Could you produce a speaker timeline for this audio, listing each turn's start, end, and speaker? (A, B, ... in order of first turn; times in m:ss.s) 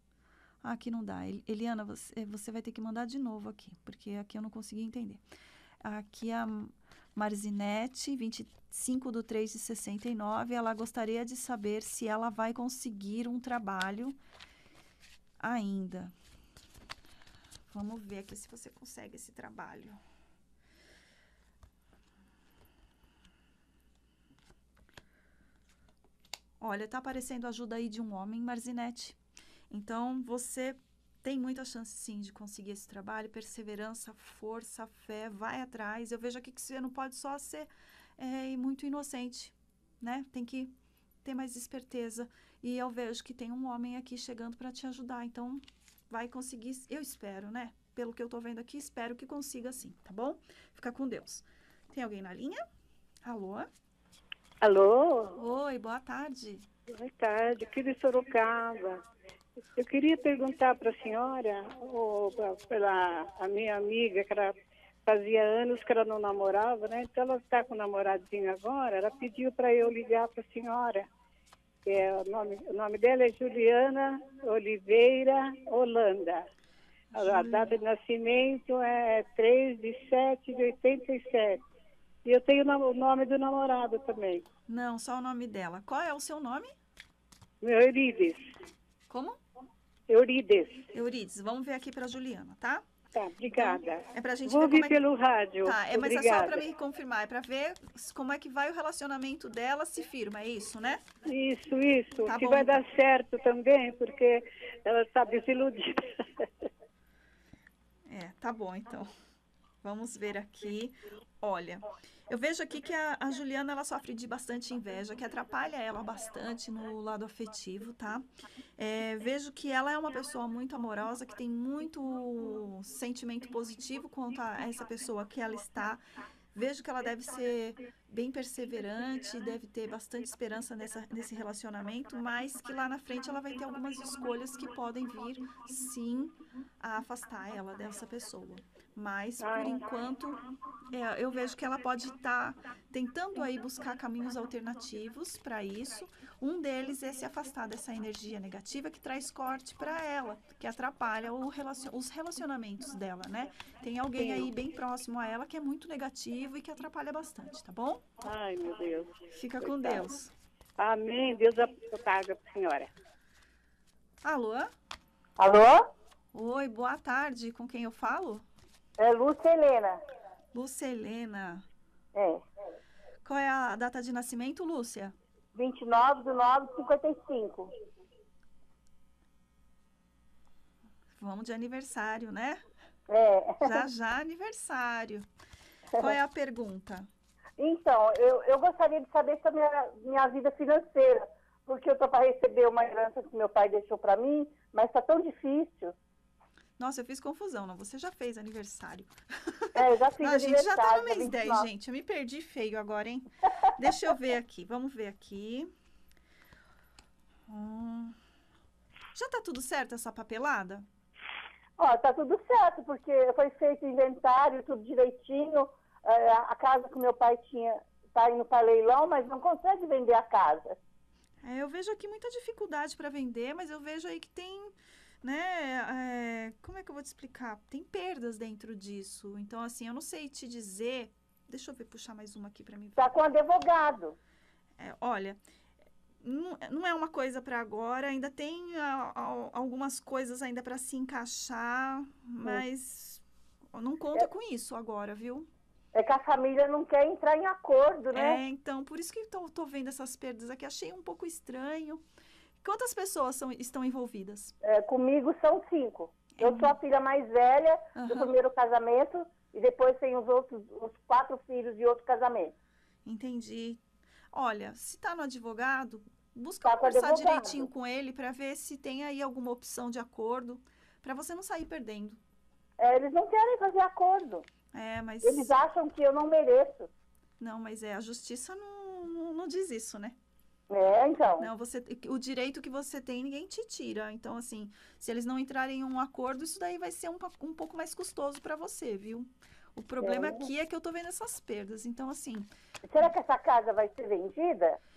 0:00.6-0:05.2 A
0:05.8-0:14.2 A
0:15.4-0:16.1 A
0:17.7-0:20.0 A
0:26.6-0:29.2 A
0:29.7-0:40.7 A
0:41.2-0:52.6 A
0:53.2-0:53.7 A
0:54.6-0:55.4 B
0:55.4-0:56.7 A
0:56.9-0:59.0 B
0:59.7-1:04.6 B
1:05.1-1:11.1 B
1:11.8-1:16.5 B
1:17.1-1:17.8 A
1:17.2-1:21.6 B
1:22.2-1:24.4 B
1:24.7-1:26.7 A
1:27.6-1:28.4 B
1:29.1-1:29.4 A
1:30.1-1:30.8 B
1:30.9-1:32.8 A
1:33.1-1:36.6 B
1:33.5-1:35.0 A
1:35.6-1:41.0 A
1:41.2-1:46.5 B
1:42.3-1:42.8 A
1:48.1-1:49.1 A
1:49.8-1:58.2 A
1:58.8-2:06.0 A
2:06.6-2:38.0 A
2:19.4-2:19.7 B
2:34.2-2:34.5 B
2:38.2-2:40.0 B
2:39.3-2:40.3 A
2:40.8-2:42.9 B
2:44.2-2:44.7 A
2:45.4-2:45.8 C
2:46.3-2:48.5 A
2:49.0-2:50.0 C
2:50.5-2:51.7 A
2:52.1-2:52.4 C
2:53.2-2:55.1 A
2:55.6-2:57.7 C
3:01.2-3:02.6 A
3:03.1-3:03.6 C
3:03.6-3:05.3 A
3:06.0-3:07.1 A
3:07.6-3:16.0 C
3:16.8-3:23.3 A
3:19.8-3:21.7 C
3:23.8-3:25.7 A
3:27.5-3:28.2 A
3:29.1-3:30.9 A
3:31.8-3:40.8 C
3:41.4-3:53.1 A
3:53.0-3:54.2 C
3:54.8-3:55.4 A
3:56.2-4:03.2 A
4:03.7-4:05.5 A
4:05.9-4:08.4 C
4:08.1-4:12.0 A
4:12.6-4:14.6 A
4:14.6-4:22.5 C
4:16.4-4:16.8 A
4:18.0-4:18.3 A
4:23.0-4:23.8 A
4:24.3-4:32.2 A
4:26.6-4:27.7 C
4:32.8-4:34.4 C
4:34.7-4:35.6 A
4:35.2-4:36.9 C
4:37.4-4:40.2 A
4:40.7-4:41.5 C
4:41.4-4:52.5 A
4:50.0-4:50.5 C
4:52.9-4:54.8 C